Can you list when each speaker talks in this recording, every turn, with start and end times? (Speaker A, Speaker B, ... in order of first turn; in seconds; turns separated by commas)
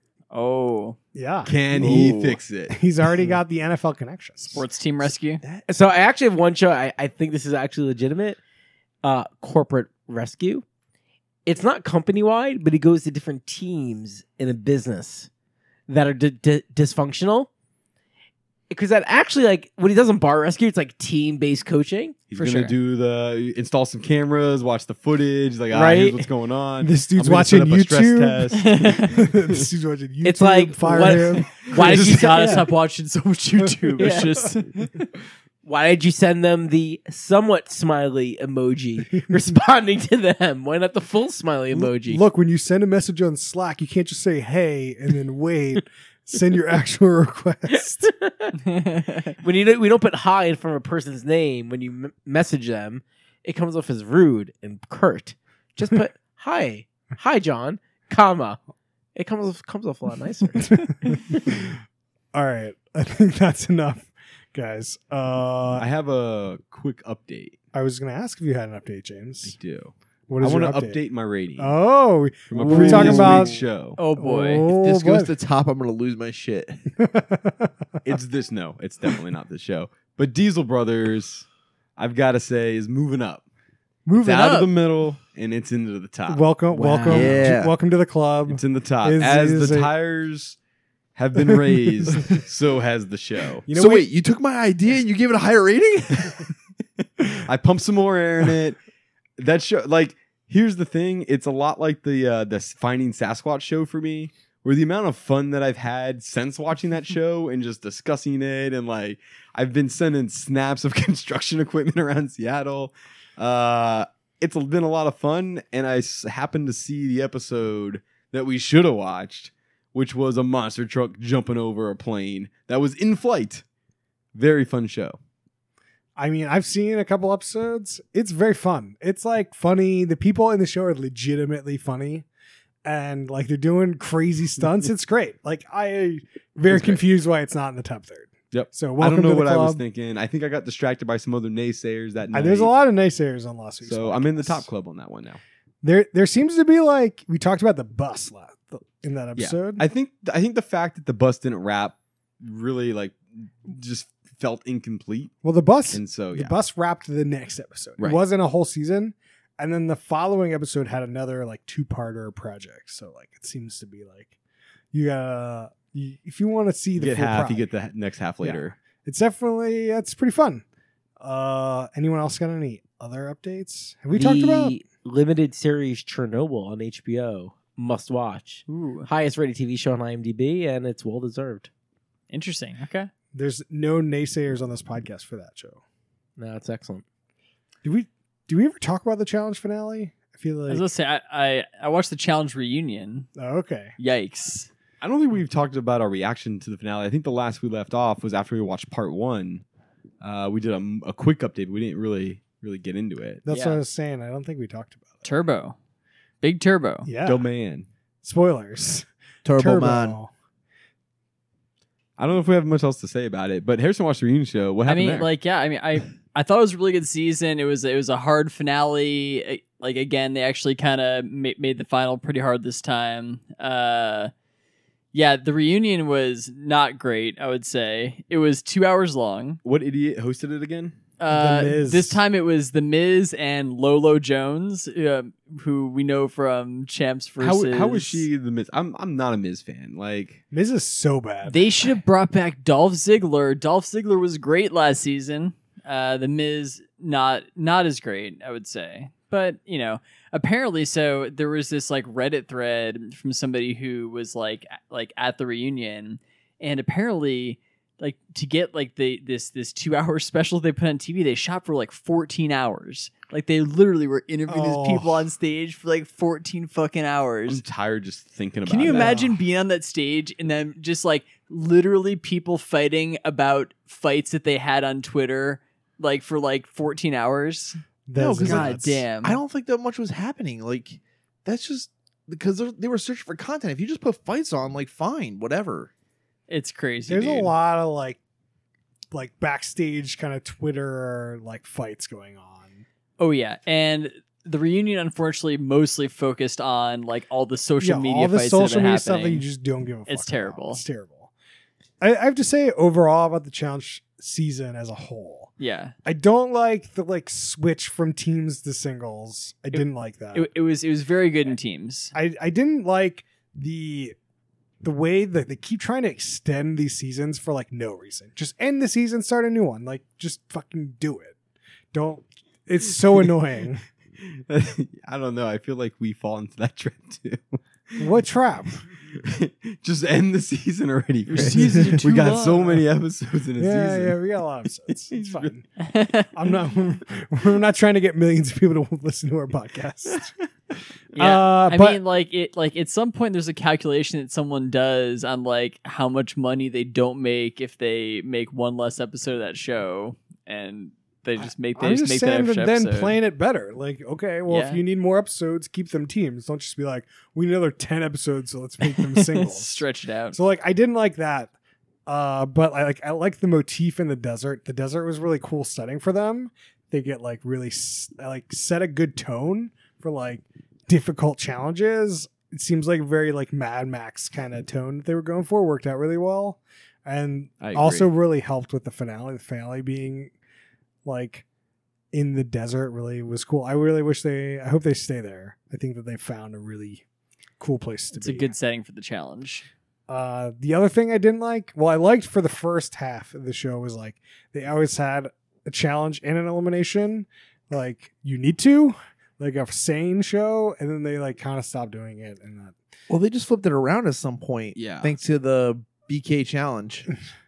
Speaker A: 0.3-1.0, Speaker B: 1.1-4.7, Speaker C: 1.5-2.8, Speaker A: 4.4-5.4, Speaker D: 5.7-8.4, Speaker D: 9.0-10.7, Speaker D: 11.5-15.3, Speaker D: 15.9-17.5, Speaker D: 18.7-22.2, Speaker C: 22.3-29.1, Speaker A: 22.4-22.7, Speaker D: 25.7-26.2, Speaker B: 26.8-31.6, Speaker A: 28.6-29.3, Speaker D: 30.2-32.7, Speaker A: 31.6-35.1, Speaker C: 31.7-32.5, Speaker B: 33.7-34.5, Speaker D: 34.0-34.3, Speaker D: 35.6-42.2, Speaker B: 41.7-48.1, Speaker D: 48.0-48.6, Speaker A: 48.7-49.3, Speaker D: 49.4-58.6, Speaker D: 59.2-61.2, Speaker B: 60.6-61.8, Speaker B: 62.3-65.8, Speaker C: 65.8-67.6, Speaker B: 67.7-69.6, Speaker C: 69.5-71.8, Speaker B: 70.3-71.0, Speaker B: 71.6-73.7, Speaker C: 72.5-74.0, Speaker A: 74.0-74.7, Speaker B: 74.2-75.3, Speaker E: 74.7-76.9, Speaker B: 77.0-78.0, Speaker C: 78.0-81.5, Speaker C: 82.0-83.4, Speaker C: 84.1-86.5, Speaker A: 84.2-84.7, Speaker B: 86.3-89.9, Speaker D: 86.7-87.3, Speaker E: 87.0-87.7, Speaker C: 88.5-90.6, Speaker C: 91.2-93.7, Speaker B: 91.4-92.4, Speaker B: 93.7-94.1, Speaker E: 93.7-96.4, Speaker C: 97.4-98.8, Speaker C: 99.4-123.6, Speaker C: 124.3-125.2, Speaker B: 126.2-132.3, Speaker B: 132.8-139.8, Speaker C: 136.7-137.0, Speaker C: 138.5-142.7, Speaker B: 142.3-144.7, Speaker C: 143.8-145.4, Speaker B: 145.8-149.8, Speaker C: 149.4-155.3, Speaker B: 155.4-164.3, Speaker C: 155.9-156.6, Speaker B: 164.9-167.7, Speaker C: 167.0-168.8, Speaker B: 168.4-170.6, Speaker B: 171.2-174.8, Speaker D: 174.1-181.7, Speaker A: 178.7-179.1, Speaker A: 182.3-183.1, Speaker B: 183.3-185.8, Speaker D: 186.4-187.0, Speaker B: 187.8-190.8, Speaker A: 190.7-193.3, Speaker B: 193.4-193.9, Speaker A: 194.0-194.7, Speaker C: 195.0-199.6, Speaker C: 200.2-203.4, Speaker B: 203.4-205.2, Speaker D: 203.5-203.8, Speaker A: 205.2-205.8, Speaker A: 206.4-207.1, Speaker B: 207.1-207.5, Speaker C: 207.2-207.9, Speaker B: 208.2-210.3, Speaker E: 209.4-210.2, Speaker C: 212.2-215.3, Speaker A: 214.9-224.3, Speaker A: 225.1-229.6, Speaker C: 229.6-231.0, Speaker A: 231.2-238.3, Speaker B: 231.3-232.2, Speaker C: 237.4-240.4, Speaker B: 240.5-241.7, Speaker A: 241.5-267.6, Speaker B: 264.5-265.2, Speaker C: 267.5-269.2, Speaker A: 268.7-277.8, Speaker B: 268.8-269.4, Speaker B: 278.1-279.0, Speaker E: 278.2-285.9, Speaker A: 278.4-279.4, Speaker A: 286.5-287.5, Speaker B: 287.1-288.2, Speaker B: 289.1-292.9, Speaker A: 293.2-299.4, Speaker B: 297.8-301.3, Speaker A: 300.1-300.8, Speaker B: 302.0-305.5, Speaker A: 305.6-305.9, Speaker B: 306.1-310.5, Speaker A: 310.3-312.1, Speaker B: 312.1-314.1, Speaker B: 314.8-321.4, Speaker B: 321.9-323.8, Speaker C: 324.2-328.1, Speaker B: 328.0-328.8, Speaker C: 329.2-334.1, Speaker B: 331.3-331.9, Speaker E: 331.3-332.4, Speaker D: 331.4-332.3, Speaker B: 333.6-335.6, Speaker C: 335.1-335.5, Speaker A: 335.8-336.4, Speaker B: 336.4-340.3, Speaker B: 341.1-342.0, Speaker A: 341.1-353.2, Speaker B: 351.4-361.5, Speaker A: 354.5-354.8, Speaker A: 358.8-360.4, Speaker B: 362.1-380.3, Speaker C: 377.6-378.1, Speaker B: 381.1-381.4, Speaker B: 382.1-387.0, Speaker B: 387.6-388.5, Speaker A: 388.1-389.7, Speaker B: 390.1-402.8, Speaker E: 403.1-407.1, Speaker C: 404.8-405.1